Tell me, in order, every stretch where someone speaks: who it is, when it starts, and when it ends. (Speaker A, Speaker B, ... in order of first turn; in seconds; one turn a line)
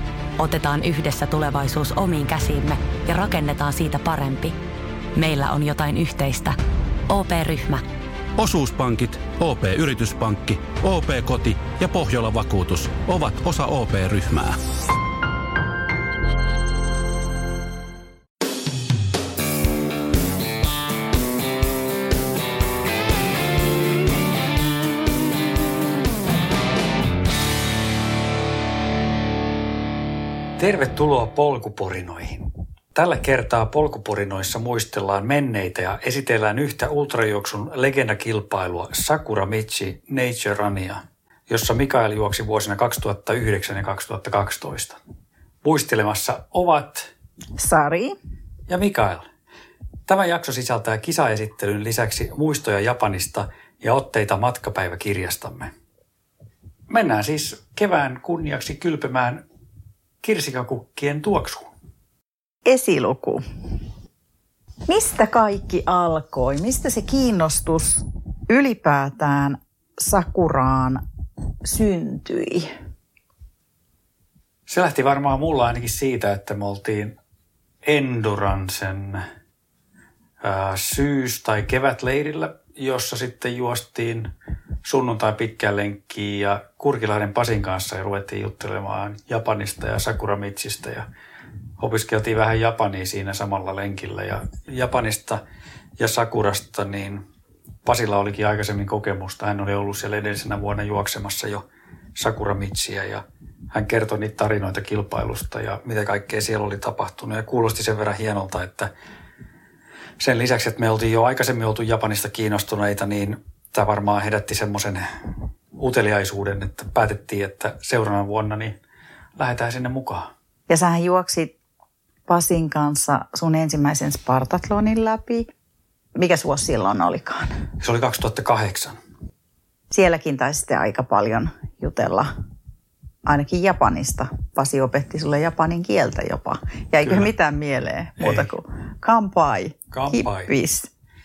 Speaker A: 0.4-4.5
Speaker A: 5.2-6.5
Speaker A: 7.1-7.8
Speaker B: 8.4-14.6
Speaker C: 30.6-45.0
Speaker C: 45.6-47.1
Speaker D: 47.6-48.1
Speaker C: 48.7-49.3
Speaker C: 50.1-55.7
Speaker C: 56.9-59.4
Speaker C: 60.2-61.7
Speaker D: 62.7-63.4
Speaker D: 64.9-71.0
Speaker D: 71.6-72.7
Speaker C: 74.7-77.2
Speaker C: 77.8-79.2
Speaker C: 80.4-84.3
Speaker C: 84.8-91.0
Speaker C: 91.8-95.4
Speaker C: 96.0-97.2
Speaker C: 97.8-101.6
Speaker C: 102.2-108.9
Speaker C: 110.2-115.0
Speaker C: 115.8-118.8
Speaker C: 119.4-120.3
Speaker D: 120.7-121.5
Speaker D: 122.3-125.5
Speaker D: 126.2-127.5
Speaker C: 127.8-129.0
Speaker D: 129.9-132.3
Speaker D: 133.2-140.9
Speaker C: 137.0-137.3
Speaker C: 138.2-138.5
Speaker C: 139.9-140.5